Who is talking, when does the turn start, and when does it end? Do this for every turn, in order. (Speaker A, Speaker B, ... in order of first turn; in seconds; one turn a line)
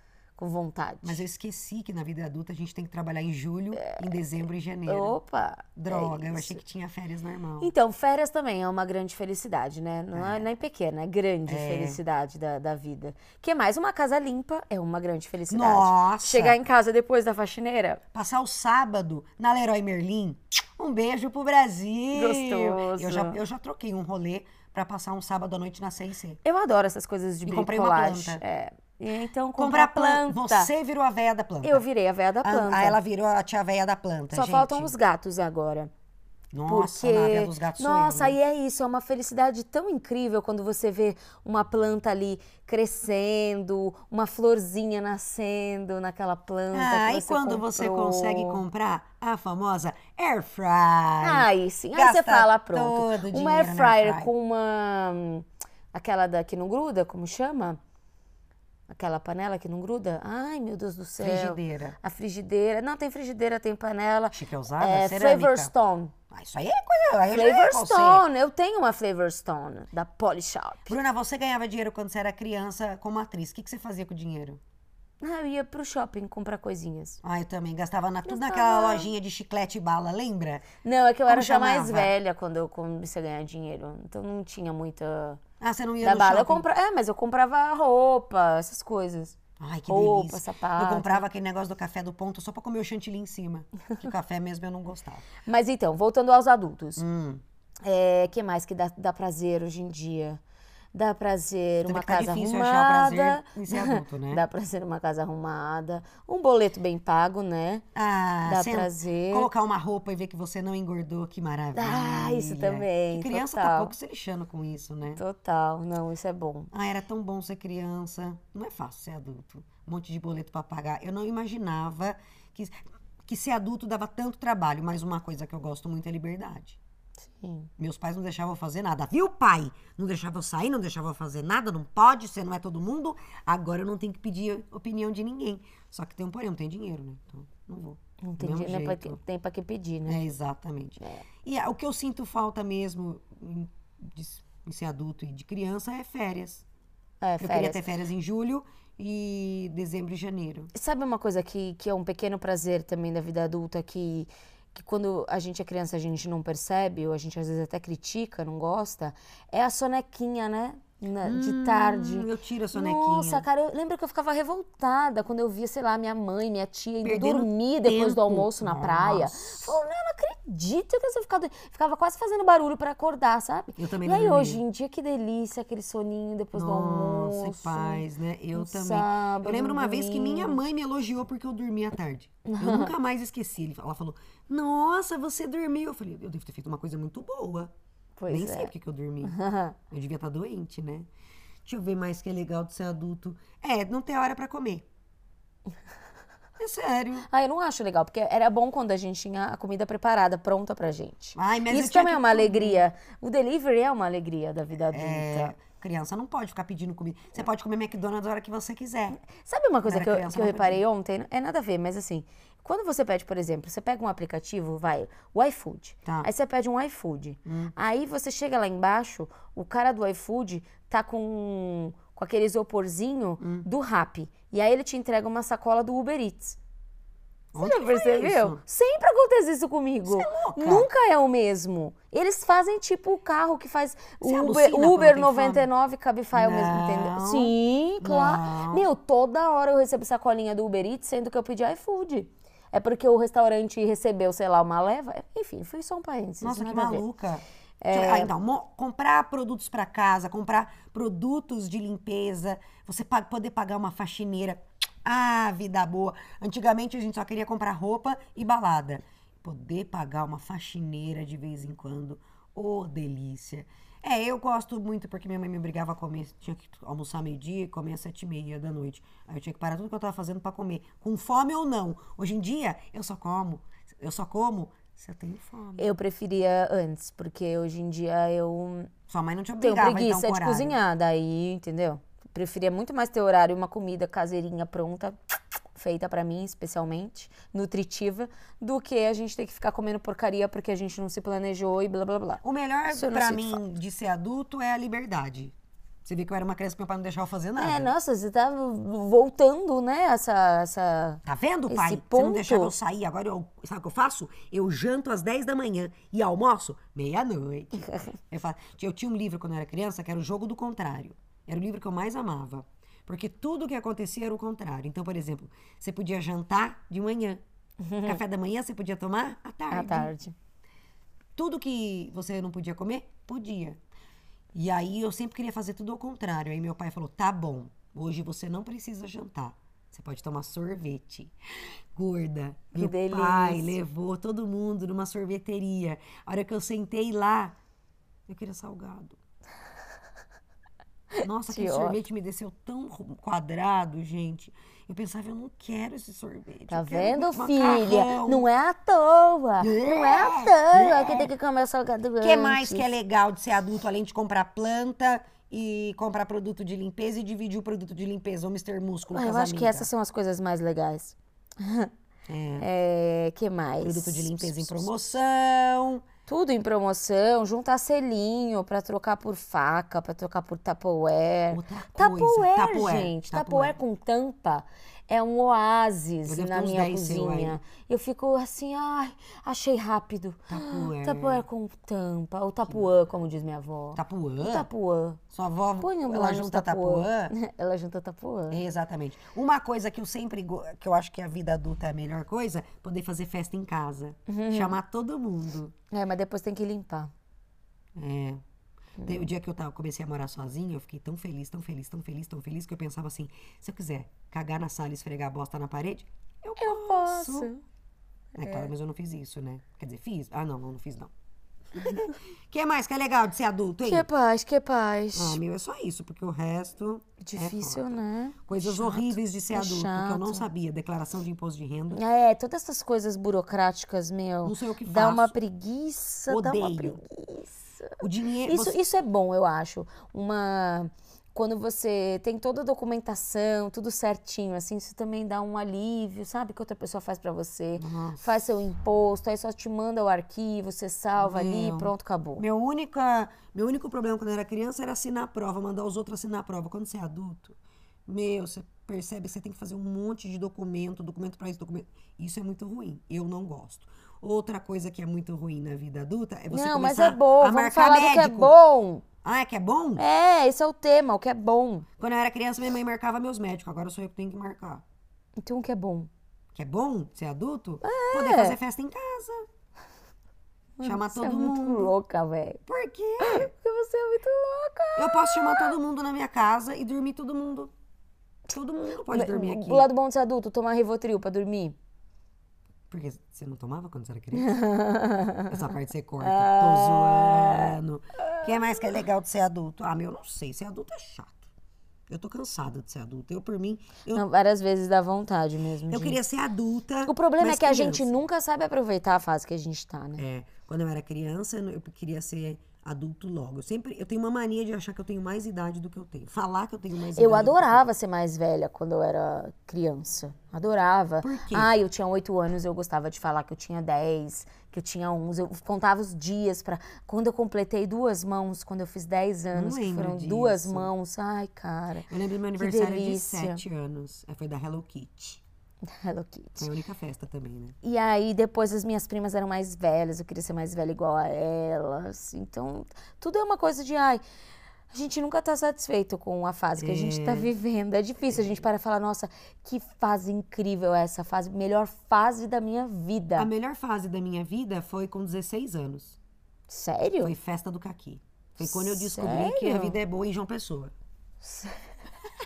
Speaker A: 0.4-1.2
Speaker B: 1.0-5.2
Speaker A: 3.8-4.1
Speaker A: 4.9-6.6
Speaker B: 5.8-7.7
Speaker A: 7.6-18.0
Speaker B: 10.1-10.5
Speaker B: 11.5-12.0
Speaker B: 15.5-16.6
Speaker B: 18.1-26.4
Speaker A: 22.1-23.4
Speaker A: 26.4-30.7
Speaker B: 27.4-28.4
Speaker B: 29.6-31.8
Speaker A: 31.6-33.0
Speaker B: 32.4-34.9
Speaker A: 34.3-35.9
Speaker B: 36.5-38.4
Speaker A: 36.7-48.6
Speaker B: 46.7-54.3
Speaker A: 51.2-57.8
Speaker A: 58.9-66.1
Speaker B: 61.2-62.0
Speaker B: 64.3-65.7
Speaker B: 66.3-68.2
Speaker A: 67.3-71.0
Speaker B: 70.9-74.6
Speaker A: 75.2-77.2
Speaker B: 77.2-80.6
Speaker A: 78.2-79.1
Speaker A: 80.8-85.4
Speaker B: 81.3-82.1
Speaker B: 85.6-86.7
Speaker A: 86.0-89.3
Speaker B: 89.6-95.2
Speaker A: 89.9-91.2
Speaker A: 95.4-97.0
Speaker B: 97.0-97.4
Speaker A: 97.8-100.4
Speaker A: 100.9-107.8
Speaker B: 101.8-104.4
Speaker B: 107.9-115.2
Speaker A: 108.4-109.5
Speaker A: 111.7-113.9
Speaker A: 115.2-116.7
Speaker B: 116.7-122.7
Speaker B: 123.2-126.8
Speaker A: 127.2-127.7
Speaker B: 127.8-139.2
Speaker A: 138.2-140.2
Speaker B: 140.1-146.6
Speaker A: 141.0-141.2
Speaker A: 147.2-147.8
Speaker B: 147.4-150.7
Speaker A: 150.7-178.0
Speaker B: 161.2-163.4
Speaker B: 167.0-169.8
Speaker B: 173.8-174.6
Speaker B: 176.5-187.7
Speaker A: 178.5-180.6
Speaker A: 182.4-182.9
Speaker A: 188.2-188.7
Speaker B: 188.3-189.3
Speaker A: 189.2-189.8
Speaker B: 189.9-191.1
Speaker B: 191.7-194.8
Speaker B: 196.6-197.3
Speaker A: 197.3-205.5
Speaker B: 201.3-202.9
Speaker B: 204.9-209.3
Speaker A: 209.3-226.6
Speaker B: 209.8-210.8
Speaker B: 217.4-217.7
Speaker B: 223.4-223.7
Speaker B: 227.5-228.6
Speaker A: 227.6-247.0
Speaker B: 230.0-230.9
Speaker B: 234.2-235.7
Speaker B: 236.3-238.9
Speaker B: 246.4-275.9
Speaker A: 247.8-248.3
Speaker A: 275.8-278.9
Speaker B: 279.1-280.8
Speaker A: 279.6-285.2
Speaker A: 285.7-293.6
Speaker B: 292.4-295.5
Speaker B: 296.0-297.9
Speaker A: 297.6-302.7
Speaker B: 301.2-317.4
Speaker A: 317.8-318.2
Speaker B: 318.0-320.1
Speaker A: 319.7-320.3
Speaker B: 321.4-323.8
Speaker B: 324.5-331.3
Speaker B: 331.9-337.5
Speaker A: 332.7-333.8
Speaker B: 338.3-339.2
Speaker A: 341.2-342.0
Speaker B: 341.2-348.5
Speaker A: 346.7-352.8
Speaker B: 349.6-351.3
Speaker B: 352.2-359.9
Speaker A: 359.1-361.9
Speaker B: 362.3-362.7
Speaker A: 362.6-364.9
Speaker B: 363.8-366.0
Speaker A: 366.3-385.2
Speaker B: 371.5-373.8
Speaker B: 376.2-377.6
Speaker B: 380.5-381.4
Speaker B: 382.6-382.9
Speaker B: 383.9-384.7
Speaker B: 385.3-387.3
Speaker A: 385.8-388.6
Speaker B: 388.5-395.7
Speaker A: 394.3-394.8
Speaker A: 395.9-397.1
Speaker B: 398.0-398.4
Speaker A: 399.0-399.2
Speaker B: 399.0-407.5
Speaker A: 406.6-407.6
Speaker A: 408.4-408.7
Speaker B: 408.4-411.1
Speaker B: 411.7-414.1
Speaker A: 413.8-415.4
Speaker B: 415.1-422.0
Speaker A: 417.2-420.5
Speaker A: 421.9-442.4
Speaker B: 424.4-425.4
Speaker B: 426.3-427.0
Speaker B: 428.0-428.8
Speaker B: 437.8-438.3
Speaker B: 441.1-458.5
Speaker A: 456.5-459.0
Speaker B: 459.2-460.0
Speaker A: 460.0-461.9
Speaker B: 462.0-464.8
Speaker A: 465.4-466.1
Speaker B: 466.5-469.4
Speaker A: 467.8-468.6
Speaker A: 470.8-472.6
Speaker B: 470.8-471.9
Speaker B: 472.6-473.5
Speaker A: 473.2-475.7
Speaker B: 475.0-477.7
Speaker B: 478.5-479.9
Speaker A: 479.1-481.8
Speaker B: 482.9-484.5
Speaker A: 484.3-485.5
Speaker B: 485.5-491.5
Speaker A: 486.2-487.8
Speaker B: 492.1-494.2
Speaker A: 494.1-496.2
Speaker B: 495.9-498.1
Speaker A: 497.1-500.2
Speaker B: 500.2-507.9
Speaker A: 507.1-523.6
Speaker B: 511.2-511.7
Speaker B: 519.5-520.9
Speaker B: 522.1-525.4
Speaker A: 525.9-526.7
Speaker B: 526.6-527.8
Speaker A: 527.8-534.2
Speaker A: 534.9-543.5
Speaker B: 536.8-537.5
Speaker B: 538.3-538.6
Speaker B: 543.4-546.2
Speaker A: 546.7-547.3
Speaker B: 547.2-550.9
Speaker A: 548.6-550.0
Speaker A: 551.4-551.8